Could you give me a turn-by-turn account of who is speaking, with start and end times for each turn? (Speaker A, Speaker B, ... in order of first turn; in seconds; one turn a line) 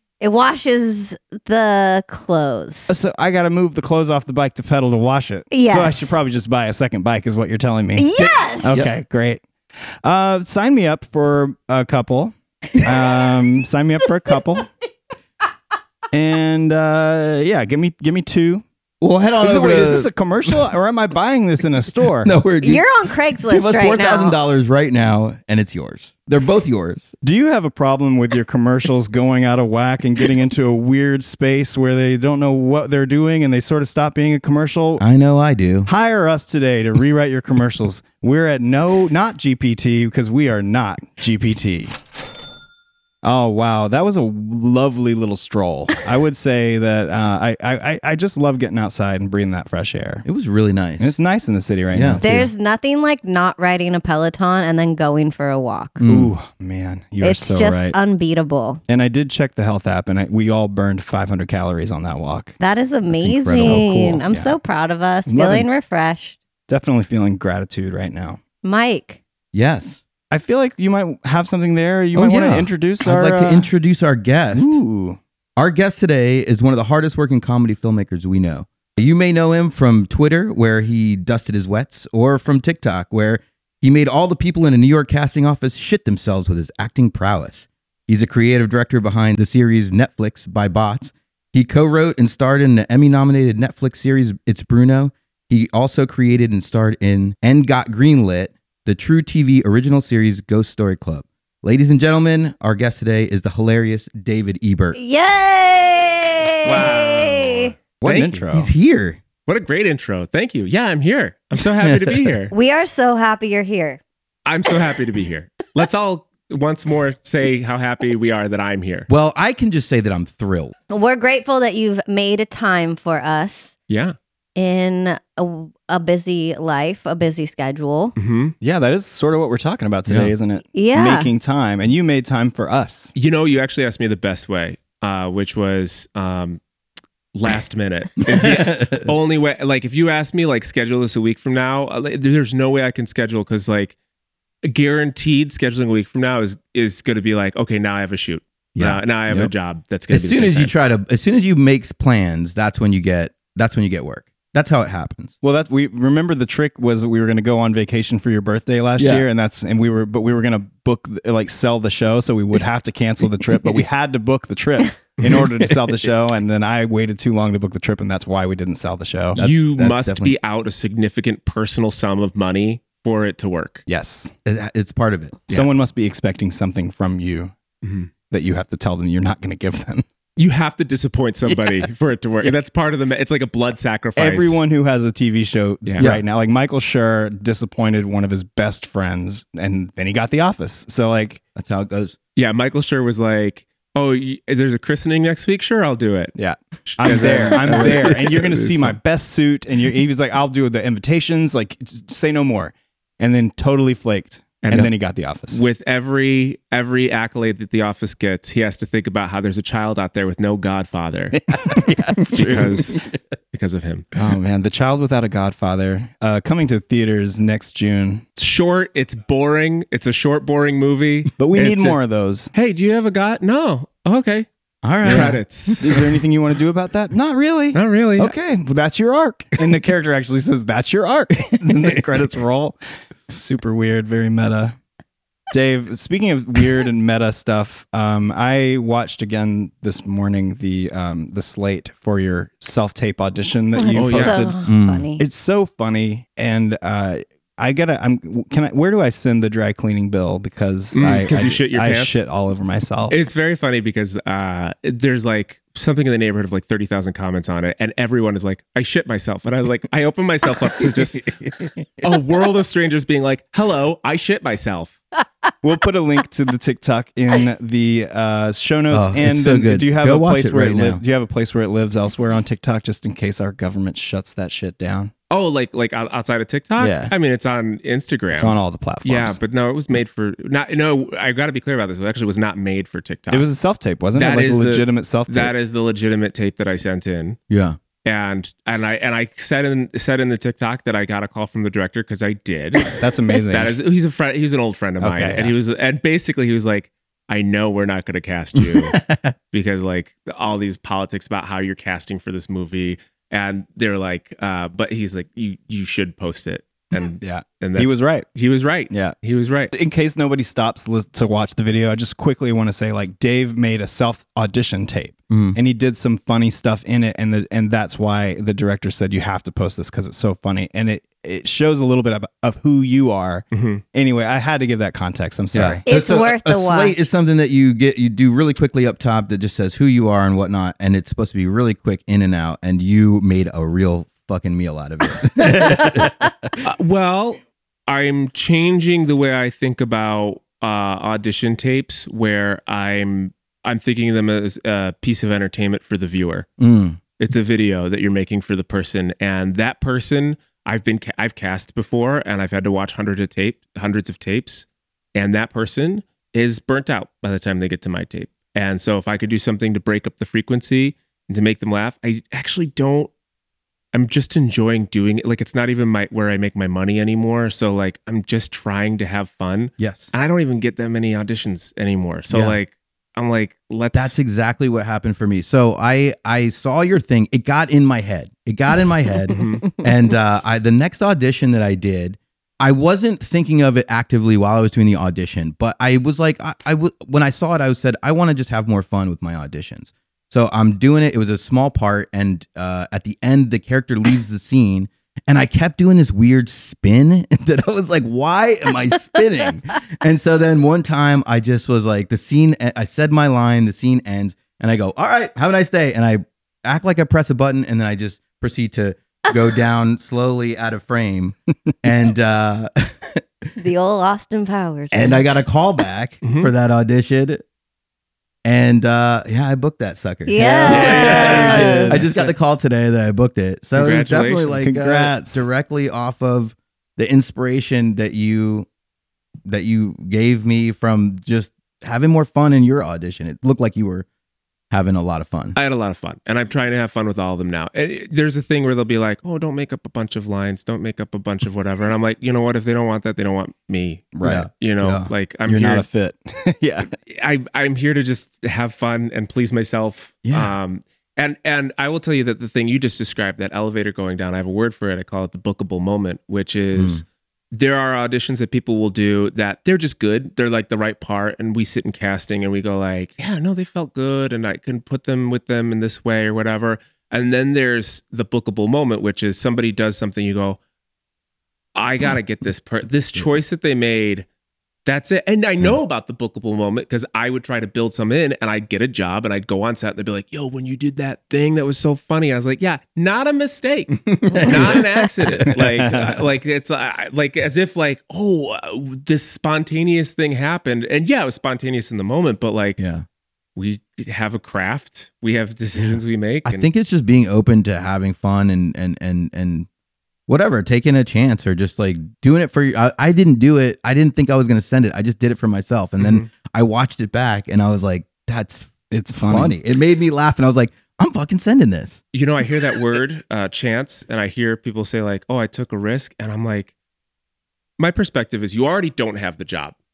Speaker A: 0.2-3.0
Speaker B: 2.9-9.4
Speaker A: 5.5-6.2
Speaker A: 8.0-8.9
Speaker C: 8.7-9.0
Speaker B: 10.0-14.7
Speaker B: 16.1-18.6
Speaker C: 19.0-20.6
Speaker B: 19.4-22.4
Speaker C: 22.2-22.9
Speaker A: 22.6-24.4
Speaker C: 23.4-27.1
Speaker B: 27.2-35.0
Speaker C: 35.0-35.9
Speaker B: 35.9-42.0
Speaker B: 43.2-50.3
Speaker C: 50.2-51.1
Speaker B: 51.0-52.5
Speaker C: 51.9-52.2
Speaker A: 52.2-56.0
Speaker C: 56.0-56.3
Speaker B: 56.1-58.0
Speaker A: 57.2-58.8
Speaker B: 58.9-62.5
Speaker A: 62.6-66.4
Speaker C: 63.1-63.9
Speaker B: 63.5-64.5
Speaker B: 65.3-65.7
Speaker B: 66.7-68.4
Speaker A: 68.6-69.2
Speaker C: 69.5-70.0
Speaker B: 70.3-73.7
Speaker C: 72.1-74.8
Speaker B: 74.5-75.2
Speaker C: 75.6-105.0
Speaker A: 105.0-107.7
Speaker D: 106.7-108.4
Speaker C: 108.0-109.2
Speaker B: 108.0-108.7
Speaker D: 109.5-112.5
Speaker C: 111.8-112.3
Speaker A: 112.5-114.0
Speaker D: 114.5-119.1
Speaker C: 119.1-120.8
Speaker A: 120.9-123.7
Speaker D: 123.9-124.2
Speaker A: 124.6-128.2
Speaker D: 128.2-128.6
Speaker B: 128.6-133.1
Speaker C: 130.1-130.3
Speaker A: 130.7-131.3
Speaker D: 133.2-136.6
Speaker D: 137.3-144.0
Speaker C: 138.3-139.1
Speaker D: 144.6-150.7
Speaker C: 148.8-149.5
Speaker C: 150.1-155.3
Speaker B: 155.4-169.4
Speaker C: 159.0-159.3
Speaker D: 165.2-165.9
Speaker C: 169.3-170.4
Speaker D: 169.4-173.8
Speaker B: 173.9-174.3
Speaker C: 174.4-175.5
Speaker B: 175.5-177.5
Speaker D: 177.8-178.1
Speaker B: 178.3-180.1
Speaker D: 180.4-184.6
Speaker B: 184.2-191.4
Speaker C: 191.6-192.2
Speaker D: 192.4-199.0
Speaker B: 196.4-205.6
Speaker D: 204.6-204.9
Speaker D: 205.5-211.4
Speaker B: 211.3-213.0
Speaker C: 212.2-212.4
Speaker D: 212.3-214.1
Speaker B: 214.2-218.2
Speaker D: 218.4-222.0
Speaker B: 221.4-222.5
Speaker D: 222.5-224.5
Speaker C: 224.8-226.1
Speaker D: 225.0-226.0
Speaker B: 225.0-232.8
Speaker D: 227.7-228.4
Speaker C: 231.7-232.0
Speaker B: 233.3-234.8
Speaker B: 235.5-244.6
Speaker A: 243.8-245.2
Speaker D: 243.9-244.5
Speaker C: 244.7-245.1
Speaker B: 245.2-253.2
Speaker D: 250.9-252.2
Speaker C: 251.0-251.4
Speaker D: 253.1-261.3
Speaker C: 261.3-262.2
Speaker D: 262.0-265.0
Speaker B: 265.6-275.1
Speaker C: 268.9-271.0
Speaker D: 275.3-283.5
Speaker B: 276.8-277.1
Speaker B: 278.4-279.4
Speaker B: 283.3-285.5
Speaker D: 284.1-287.4
Speaker C: 287.5-287.8
Speaker D: 288.0-299.0
Speaker B: 292.9-293.8
Speaker B: 295.0-295.5
Speaker C: 298.6-299.4
Speaker D: 299.5-309.7
Speaker B: 307.2-308.3
Speaker B: 309.7-325.8
Speaker C: 315.3-315.6
Speaker D: 323.5-323.8
Speaker C: 325.5-336.6
Speaker A: 325.9-327.1
Speaker B: 335.5-335.9
Speaker D: 336.6-346.5
Speaker C: 346.6-347.0
Speaker D: 347.2-363.1
Speaker D: 363.9-374.1
Speaker C: 369.8-370.1
Speaker C: 372.3-372.6
Speaker C: 373.9-413.2
Speaker D: 379.3-379.6
Speaker A: 413.6-415.2
Speaker C: 414.9-417.4
Speaker D: 416.2-416.5
Speaker C: 418.4-428.7
Speaker A: 420.3-422.0
Speaker B: 420.4-422.1
Speaker D: 420.7-422.3
Speaker D: 423.8-424.5
Speaker B: 424.6-425.5
Speaker C: 429.5-434.1
Speaker C: 434.7-435.6
Speaker D: 435.6-445.9
Speaker B: 444.2-444.5
Speaker C: 444.2-445.1
Speaker B: 445.5-446.9
Speaker D: 447.0-470.6
Speaker C: 450.2-450.6
Speaker C: 456.8-457.0
Speaker D: 471.8-474.3
Speaker D: 474.9-492.8
Speaker C: 484.1-484.9
Speaker B: 485.5-486.2
Speaker C: 492.8-493.0
Speaker D: 493.6-496.6
Speaker C: 496.4-499.7
Speaker C: 500.3-512.0
Speaker D: 506.0-506.3
Speaker B: 508.9-509.5
Speaker D: 512.1-516.7
Speaker D: 517.8-519.8